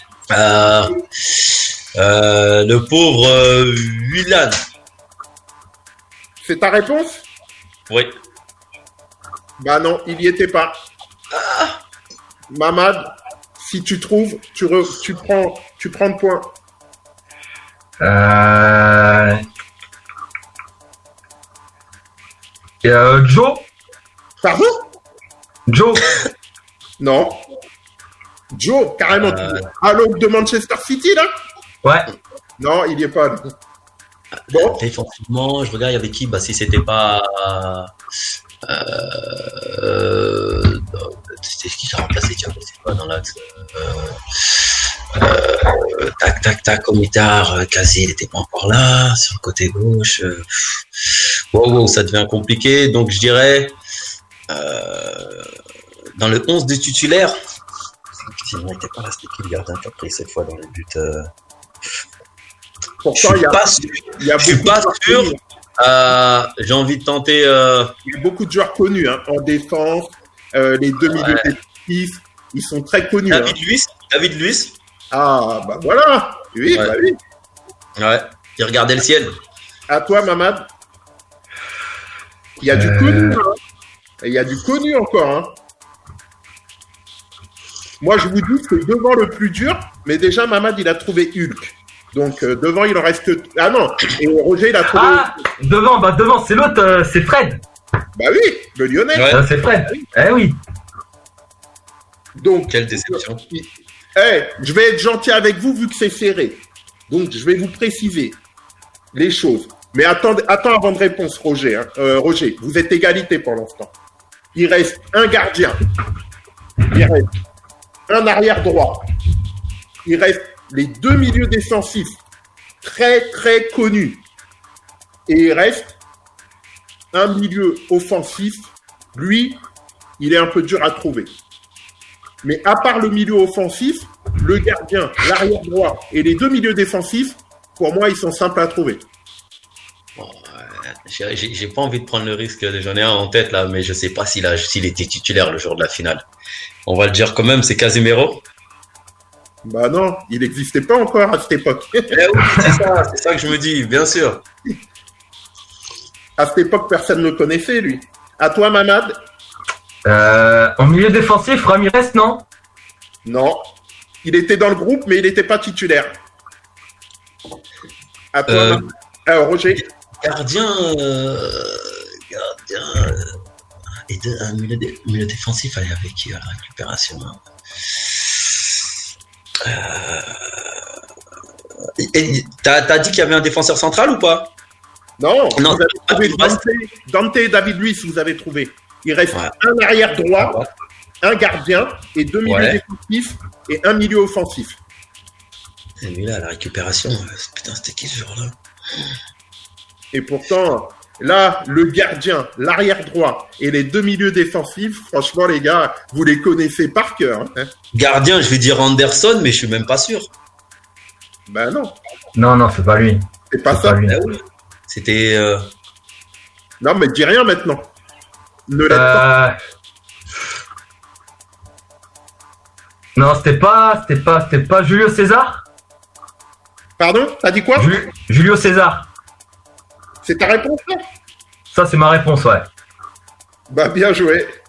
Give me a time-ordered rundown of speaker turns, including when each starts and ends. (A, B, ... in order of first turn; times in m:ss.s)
0:00.3-0:04.6 A
0:06.4-0:07.3 B
0:09.6-0:10.8 B
0:11.3-0:11.8 A
0:12.5-0:16.5 B
0:18.0-0:19.4 C
0:22.8-0:23.7 C
0:24.4-0:24.8 B
0:25.7-0:26.1 C
0:27.0-0:27.4 B
0:28.5-0:31.3 B
0:29.1-0:29.6 A
0:32.6-0:33.5 B
0:34.5-0:37.9 A
0:34.5-0:34.8 B
0:38.6-0:44.6 A
0:45.1-0:53.8 A
0:54.5-0:55.5 A
0:56.2-0:57.3 A
0:58.3-1:01.3 A
1:03.0-1:05.4 B
1:03.2-1:07.9 A
1:08.0-1:13.5 B
1:11.1-1:11.5 A
1:13.3-1:14.8 A
1:15.1-1:17.2 B
1:16.7-1:16.9 A
1:18.0-1:19.4 A
1:19.9-1:20.7 B
1:22.6-1:23.6 B
1:22.7-1:23.4 C
1:24.2-1:25.6 B
1:28.0-1:35.4 B
1:34.9-1:37.6 C
1:38.2-1:40.1 B
1:39.1-1:39.4 A
1:39.3-1:40.6 C
1:42.4-1:48.4 B
1:42.7-1:43.4 A
1:49.1-1:53.9 B
1:54.5-1:55.8 B
1:56.8-1:57.3 B
1:58.1-1:59.1 B
2:00.0-2:02.2 B
2:02.8-2:04.2 B
2:05.3-2:06.0 B
2:07.1-2:09.6 B
2:10.2-2:11.3 B
2:12.4-2:19.0 B
2:20.2-2:26.2 A
2:26.8-2:28.4 A
2:29.6-2:33.0 B
2:32.1-2:34.4 A
2:36.4-2:39.2 B
2:40.0-2:42.4 C
2:43.2-2:43.7 B
2:44.2-2:46.1 B
2:48.3-2:49.8 B
2:48.5-2:48.8 A
2:49.8-2:53.4 A
2:54.1-2:57.4 A
2:58.3-2:58.6 A
2:59.6-3:00.7 A
3:02.0-3:04.5 A
3:05.2-3:10.6 B
3:05.6-3:06.6 A
3:10.4-3:10.7 A
3:11.2-3:14.8 B
3:12.4-3:12.8 A
3:16.0-3:18.5 A
3:20.1-3:27.7 B
3:27.9-3:30.3 A
3:31.5-3:32.0 B
3:32.3-3:34.2 C
3:33.5-3:34.0 B
3:34.1-3:35.7 A
3:36.8-3:37.9 B
3:38.7-3:39.2 B
3:38.9-3:39.6 C
3:43.2-3:45.6 C
3:47.0-3:47.9 B
3:47.8-3:49.1 C
3:50.2-3:51.0 B
3:51.7-3:52.7 C
3:53.7-3:54.5 B